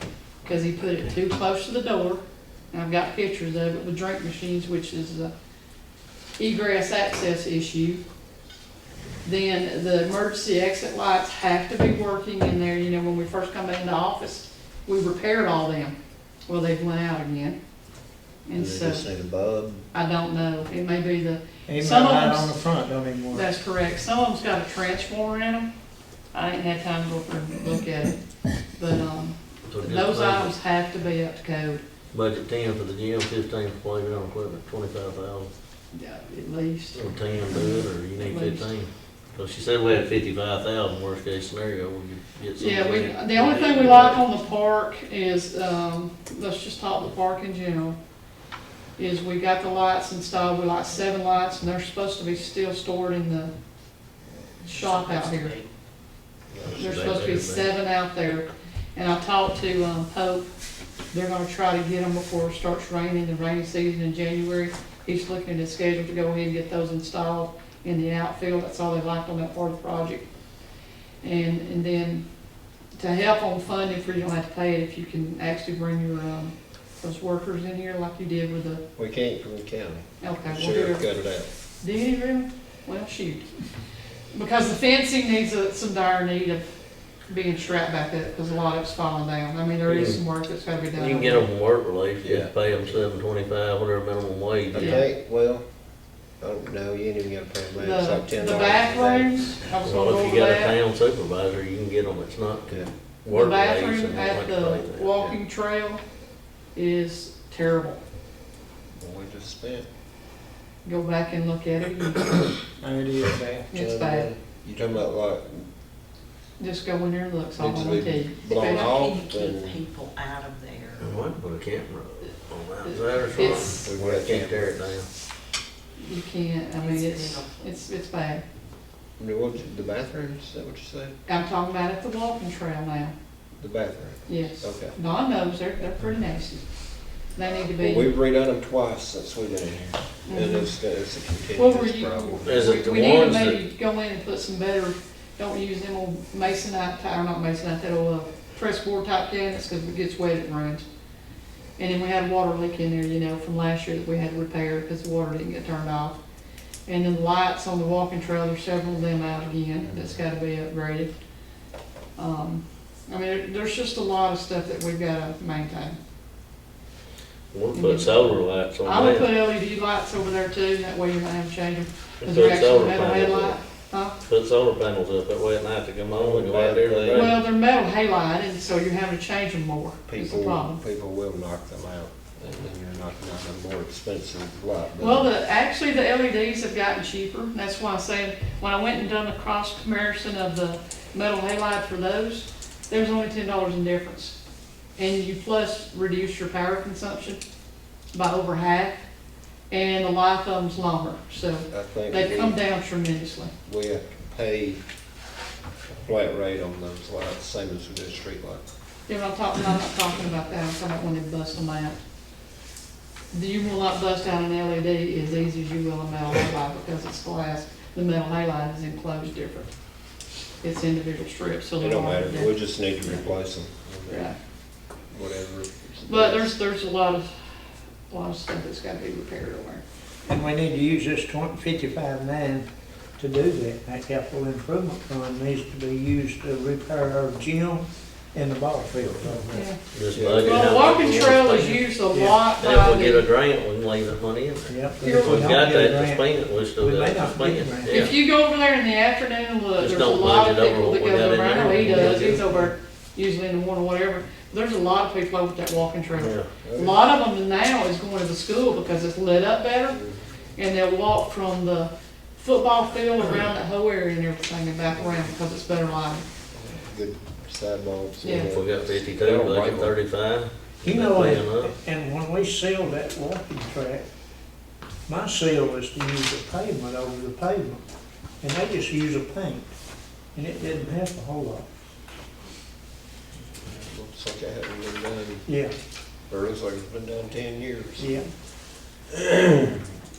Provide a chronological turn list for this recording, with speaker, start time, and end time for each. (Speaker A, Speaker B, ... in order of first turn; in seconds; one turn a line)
Speaker A: 0.4-5.3
Speaker A: 6.4-8.0
Speaker A: 9.2-16.0
Speaker A: 16.5-17.6
Speaker A: 18.4-19.0
Speaker B: 18.6-19.8
Speaker A: 19.9-22.5
Speaker C: 21.6-23.5
Speaker A: 23.3-25.7
Speaker A: 26.3-31.8
Speaker D: 29.7-30.5
Speaker D: 32.1-35.5
Speaker A: 35.9-38.7
Speaker D: 36.9-44.2
Speaker A: 42.6-48.0
Speaker A: 49.0-53.5
Speaker E: 54.6-55.7
Speaker A: 54.7-55.6
Speaker B: 56.5-56.8
Speaker D: 56.7-57.7
Speaker A: 56.8-60.5
Speaker A: 61.1-70.3
Speaker A: 71.2-72.2
Speaker A: 73.0-78.8
Speaker B: 79.0-81.5
Speaker A: 80.2-81.0
Speaker A: 81.8-83.5
Speaker A: 84.3-86.7
Speaker A: 87.3-91.5
Speaker D: 89.8-90.2
Speaker D: 90.9-95.1
Speaker B: 92.2-92.5
Speaker B: 94.7-95.7
Speaker A: 94.8-95.0
Speaker B: 96.4-99.4
Speaker A: 97.8-100.8
Speaker D: 99.8-105.3
Speaker A: 103.3-106.0
Speaker A: 106.7-108.0
Speaker B: 109.0-109.9
Speaker A: 110.8-112.5
Speaker C: 112.8-113.7
Speaker A: 113.7-114.3
Speaker B: 113.7-115.7
Speaker A: 116.6-119.0
Speaker B: 117.6-119.8
Speaker E: 118.5-121.1
Speaker D: 121.0-125.1
Speaker A: 122.8-123.9
Speaker B: 123.8-124.8
Speaker A: 126.0-128.4
Speaker E: 126.8-127.7
Speaker B: 129.2-131.2
Speaker A: 131.3-133.1
Speaker B: 133.6-134.9
Speaker A: 134.3-136.6
Speaker A: 137.3-138.1
Speaker B: 137.7-142.6
Speaker A: 140.3-140.7
Speaker A: 141.6-150.9
Speaker D: 142.4-143.6
Speaker A: 151.8-156.2
Speaker A: 156.9-161.1
Speaker B: 159.9-160.2
Speaker A: 162.2-166.0
Speaker D: 167.5-169.3
Speaker A: 167.7-174.2
Speaker D: 172.2-173.6
Speaker D: 174.2-177.4
Speaker B: 176.1-177.4
Speaker A: 177.1-180.8
Speaker B: 180.1-185.3
Speaker A: 185.0-194.4
Speaker A: 195.0-197.4
Speaker A: 198.1-199.0
Speaker A: 199.7-203.5
Speaker B: 201.7-202.6
Speaker B: 203.7-204.8
Speaker B: 205.9-208.6
Speaker A: 209.1-212.0
Speaker A: 213.3-219.7
Speaker A: 220.6-223.2
Speaker B: 221.8-224.3
Speaker A: 224.1-224.3
Speaker B: 225.1-226.5
Speaker A: 226.1-227.4
Speaker A: 228.1-229.8
Speaker C: 230.2-239.6
Speaker A: 239.5-239.8
Speaker D: 239.9-241.8
Speaker B: 240.1-240.6
Speaker A: 240.4-243.2
Speaker C: 242.1-242.4
Speaker D: 242.6-248.1
Speaker C: 244.7-248.1
Speaker A: 247.9-260.0
Speaker D: 249.8-252.4
Speaker D: 256.1-256.5
Speaker B: 256.6-257.0
Speaker B: 259.9-260.2
Speaker A: 260.6-266.2
Speaker B: 266.5-269.9
Speaker A: 268.2-268.5
Speaker D: 268.4-271.7
Speaker C: 270.8-274.0
Speaker C: 275.1-277.9
Speaker C: 278.4-279.7
Speaker C: 280.3-281.7
Speaker B: 283.5-285.4
Speaker C: 285.4-285.7
Speaker B: 286.3-288.2
Speaker C: 288.0-288.3
Speaker B: 289.1-289.8